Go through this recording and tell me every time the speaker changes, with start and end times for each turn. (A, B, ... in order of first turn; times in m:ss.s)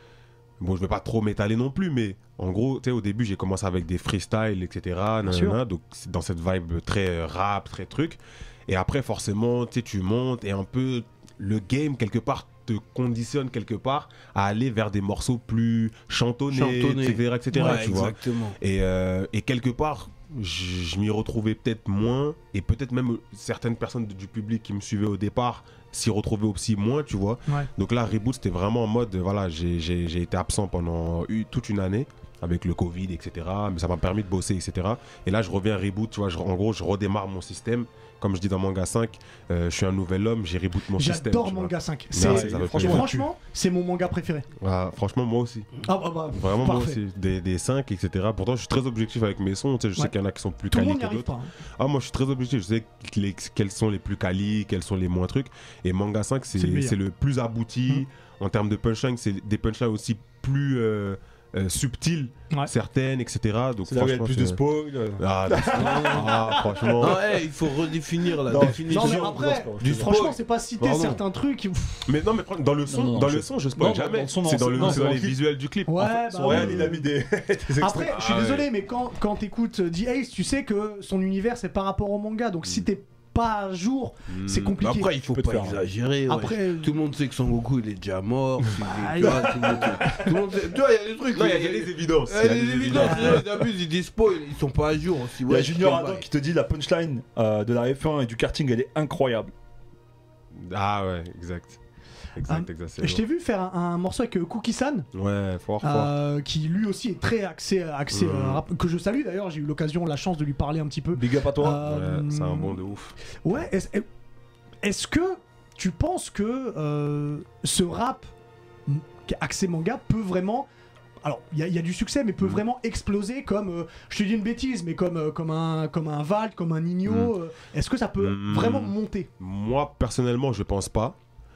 0:00.6-0:43.3 A
0:05.2-0:05.6 B
0:16.5-0:18.6 C
0:17.5-0:18.0 B
0:41.0-0:44.5 B
0:42.2-0:43.2 D
0:44.6-1:04.6 A
0:45.8-0:47.0 B
0:50.7-0:51.5 B
0:56.6-0:57.0 B
1:03.8-1:06.6 D
1:05.2-1:07.4 A
1:05.7-1:06.2 C
1:06.5-1:06.9 B
1:07.0-1:11.2 C
1:08.5-1:10.2 D
1:08.9-1:12.1 B
1:12.1-1:16.9 A
1:12.9-1:15.4 D
1:15.9-1:17.1 B
1:16.0-1:18.2 D
1:17.8-1:25.1 B
1:18.1-1:18.7 A
1:24.3-1:24.7 A
1:24.8-1:36.2 C
1:25.3-1:25.8 D
1:26.3-1:26.9 B
1:28.8-1:30.3 B
1:31.3-1:33.4 A
1:33.0-1:33.4 B
1:35.5-1:39.5 D
1:40.5-1:41.8 A
1:42.4-1:43.2 A
1:42.5-1:45.1 B
1:45.1-1:46.1 A
1:45.8-1:52.8 B
1:48.1-1:48.6 A
1:51.1-1:51.8 D
1:51.8-1:53.2 A
1:53.4-1:54.0 B
1:54.8-1:58.3 B
1:58.9-2:00.7 B
2:01.2-2:09.3 B
2:07.0-2:07.3 A
2:08.2-2:11.2 A